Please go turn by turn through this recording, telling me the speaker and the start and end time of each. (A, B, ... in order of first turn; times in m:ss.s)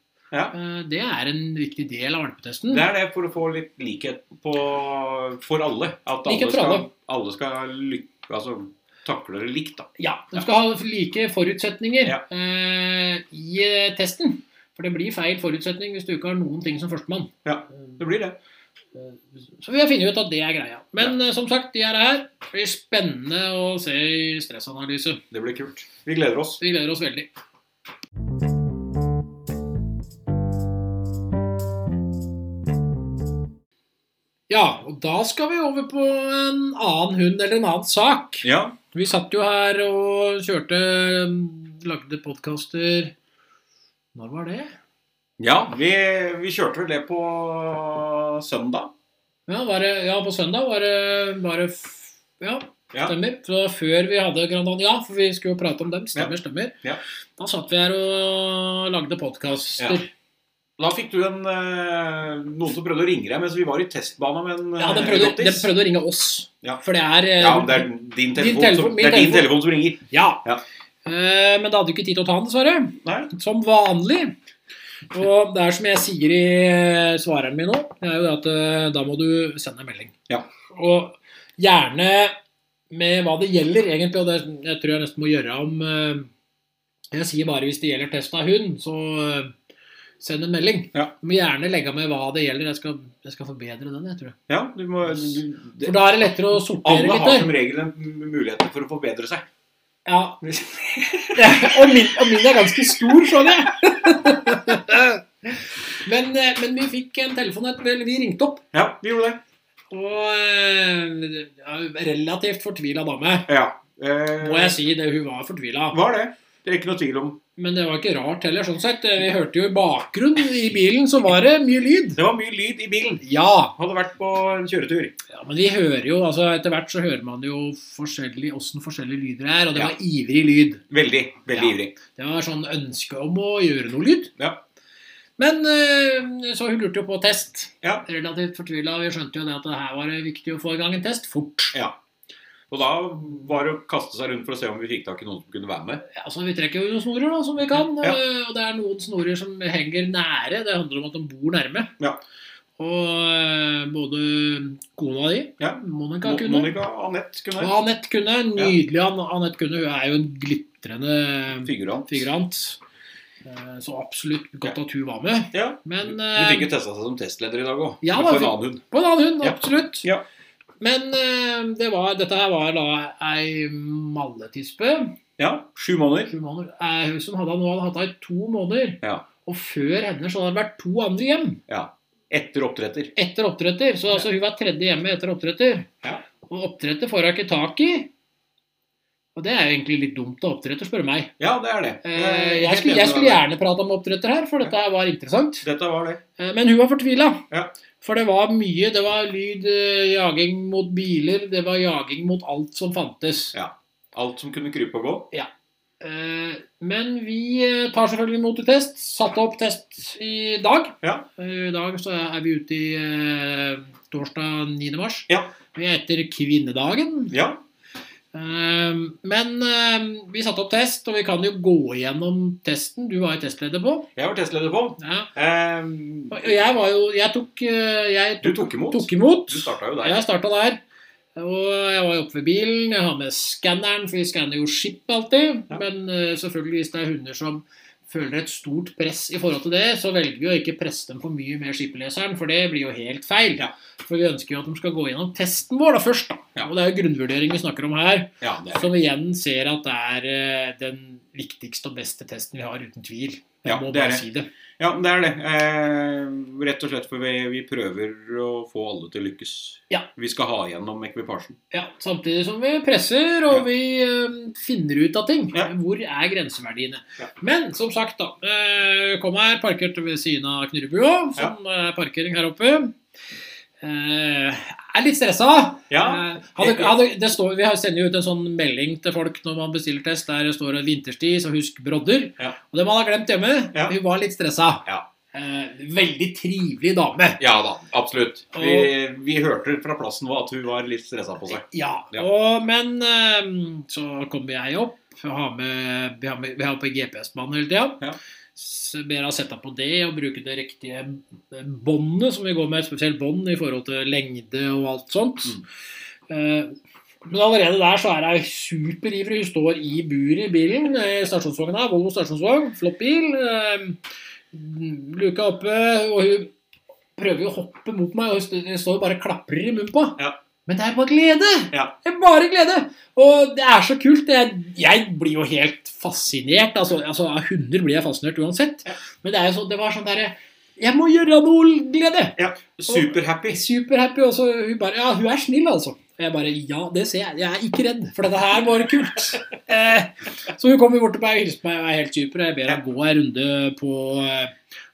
0:00.5-0:02.8 A
0:02.7-0:10.5 B
0:06.3-0:06.9 A
0:10.0-0:17.3 A
0:17.4-0:18.4 B
0:19.0-0:25.2 A
0:25.3-0:26.6 B
0:26.6-0:27.3 A
0:34.5-0:43.1 A
0:38.4-0:38.8 B
0:44.2-0:44.8 A
0:45.4-0:48.9 B
0:49.5-0:56.8 A
0:57.4-1:00.1 A
1:00.8-1:05.7 B
1:04.8-1:10.4 A
1:07.4-1:10.6 B
1:11.0-1:14.4 A
1:13.0-1:13.3 B
1:15.1-1:20.1 A
1:20.7-1:22.4 A
1:22.9-1:26.3 A
1:27.1-1:29.6 A
1:30.2-1:34.4 A
1:34.5-1:36.0 B
1:35.1-1:37.5 A
1:36.5-1:39.5 B
1:40.0-1:40.4 A
1:40.4-1:42.0 B
1:41.4-1:48.6 A
1:43.2-1:43.7 B
1:48.7-1:49.4 B
1:49.9-1:53.5 A
1:53.5-1:54.8 B
1:54.4-1:56.0 A
1:55.9-1:57.4 B
1:57.6-2:02.2 A
2:02.2-2:03.2 B
2:03.2-2:03.7 A
2:03.8-2:05.2 B
2:05.3-2:10.8 A
2:10.9-2:12.0 B
2:11.5-2:14.3 A
2:15.4-2:21.8 A
2:22.7-2:26.0 B
2:26.1-2:31.9 A
2:27.8-2:28.2 B
2:32.8-2:36.7 A
2:35.6-2:37.8 B
2:37.6-2:42.8 A
2:41.6-2:42.3 B
2:43.4-2:46.7 A
2:45.5-2:48.8 B
2:48.0-2:50.1 A
2:49.4-2:50.2 B
2:50.8-2:55.2 A
2:55.4-2:56.3 B
2:56.3-3:01.6 A
2:59.0-2:59.3 B
3:01.7-3:03.1 B
3:03.2-3:05.9 A
3:06.5-3:08.1 A
3:09.4-3:11.3 A
3:11.4-3:13.4 B
3:12.0-3:15.7 A
3:15.6-3:16.2 B
3:16.4-3:17.4 A
3:18.0-3:23.6 A
3:23.5-3:25.3 B
3:26.0-3:37.3 A
3:31.0-3:31.3 B
3:37.3-3:37.6 B
3:38.3-3:44.1 A
3:44.2-3:46.5 B
3:45.0-3:45.3 A
3:46.3-3:50.8 A
3:48.4-3:50.2 B
3:51.4-4:14.5 A
4:08.4-4:08.8 B
4:13.6-4:14.2 B
4:14.8-4:21.6 B
4:21.7-4:33.0 A
4:33.8-4:47.4 A
4:35.9-4:37.0 B
4:47.4-4:52.3 B
4:48.5-4:48.9 A
4:51.7-4:58.0 A
4:58.6-5:05.6 A
5:06.3-5:14.0 A
5:14.5-5:16.5 A
5:17.2-5:44.6 A
5:32.4-5:33.6 B